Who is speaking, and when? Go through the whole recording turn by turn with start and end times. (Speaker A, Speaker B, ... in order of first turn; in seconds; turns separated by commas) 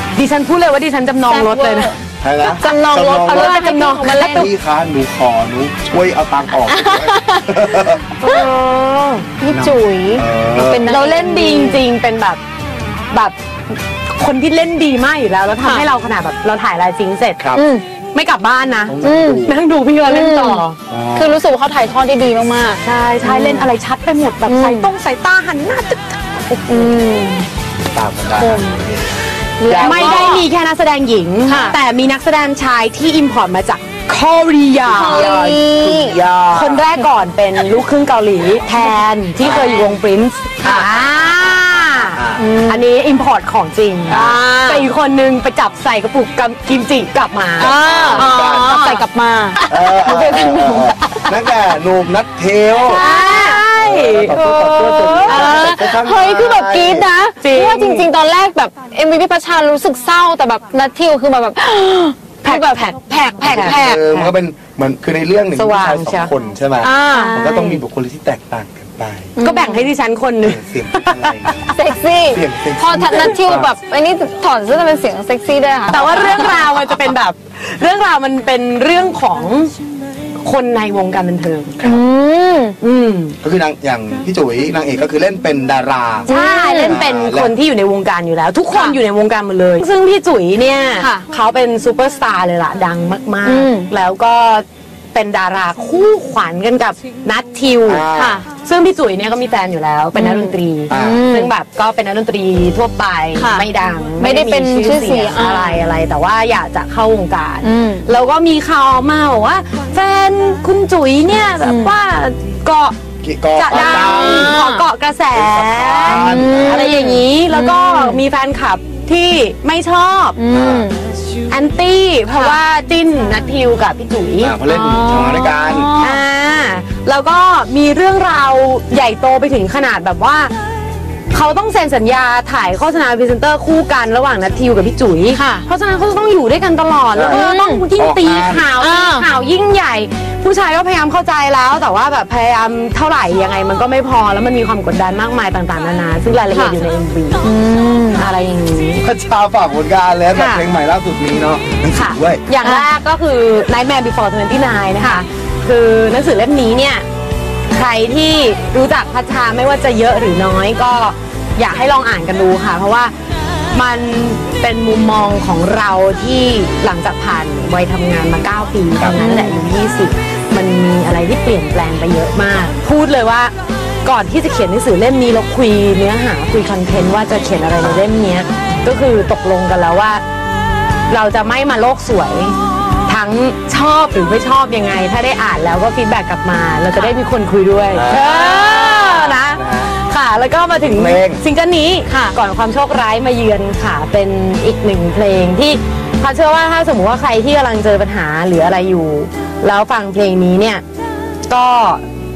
Speaker A: 0.1-1.9, Speaker B: 1.2-4.5, Speaker C: 2.2-8.2, Speaker A: 3.2-4.5, Speaker B: 6.7-7.5, Speaker B: 8.2-8.5, Speaker A: 8.2-9.2, Speaker B: 9.4-11.8, Speaker C: 9.5-10.9, Speaker A: 10.9-12.4, Speaker A: 13.1-17.4, Speaker C: 17.4-17.6, Speaker B: 17.5-17.8, Speaker A: 18.1-20.8, Speaker C: 18.9-19.6, Speaker B: 19.0-19.4, Speaker B: 20.1-20.6, Speaker C: 20.9-21.4, Speaker B: 21.1-23.7, Speaker A: 22.8-26.9, Speaker B: 24.5-24.9, Speaker B: 26.7-27.4, Speaker C: 27.9-30.4, Speaker B: 28.3-28.8, Speaker B: 29.6-30.4, Speaker A: 29.7-35.6, Speaker B: 31.4-31.8, Speaker B: 34.8-36.2, Speaker C: 35.1-36.9, Speaker A: 36.5-49.0, Speaker C: 39.4-39.9, Speaker C: 40.6-42.5, Speaker B: 42.4-42.9, Speaker C: 44.1-44.4, Speaker B: 44.1-44.9, Speaker C: 47.6-48.8, Speaker B: 47.6-51.3, Speaker C: 49.7-53.0, Speaker B: 52.8-53.7, Speaker A: 52.8-55.8, Speaker C: 53.7-57.1, Speaker B: 54.3-64.0, Speaker A: 57.4-58.1, Speaker A: 62.4-64.3, Speaker C: 63.4-69.3, Speaker A: 65.5-67.8, Speaker B: 66.8-67.5, Speaker B: 69.4-69.9, Speaker A: 69.4-71.5, Speaker C: 70.4-73.7, Speaker B: 71.7-76.8, Speaker A: 75.9-79.7, Speaker A: 80.4-81.8, Speaker B: 81.8-82.8, Speaker A: 82.8-83.3, Speaker C: 83.4-87.5, Speaker A: 86.3-113.0, Speaker B: 86.3-87.0, Speaker B: 88.7-89.0, Speaker B: 91.0-91.2, Speaker B: 93.4-93.9, Speaker C: 97.8-98.5, Speaker B: 98.1-98.4, Speaker B: 100.1-101.5, Speaker C: 100.9-101.3, Speaker B: 103.3-103.7, Speaker B: 104.2-105.8, Speaker B: 107.6-108.1, Speaker B: 111.6-111.9, Speaker C: 113.2-114.6, Speaker A: 113.5-120.3, Speaker B: 113.7-114.8, Speaker C: 115.3-117.1, Speaker B: 116.0-118.2, Speaker B: 120.3-121.1, Speaker C: 120.5-120.9, Speaker A: 121.5-124.5, Speaker B: 122.3-122.6, Speaker C: 124.4-125.9, Speaker B: 124.7-126.2, Speaker A: 126.0-130.5, Speaker A: 131.3-147.4, Speaker B: 135.3-135.6, Speaker C: 137.1-137.4, Speaker B: 137.3-137.8, Speaker C: 137.9-138.7, Speaker B: 138.8-139.3, Speaker B: 146.5-146.8, Speaker B: 147.4-148.3, Speaker A: 148.1-149.0, Speaker C: 149.0-152.4, Speaker A: 151.9-157.0, Speaker B: 152.6-152.8, Speaker A: 157.7-163.1, Speaker A: 163.7-180.2, Speaker B: 169.2-169.7, Speaker C: 177.8-178.1, Speaker A: 181.1-182.6, Speaker A: 183.1-200.8, Speaker C: 187.9-189.9, Speaker B: 188.6-189.2, Speaker C: 190.7-191.4, Speaker B: 192.1-192.3, Speaker A: 201.5-202.0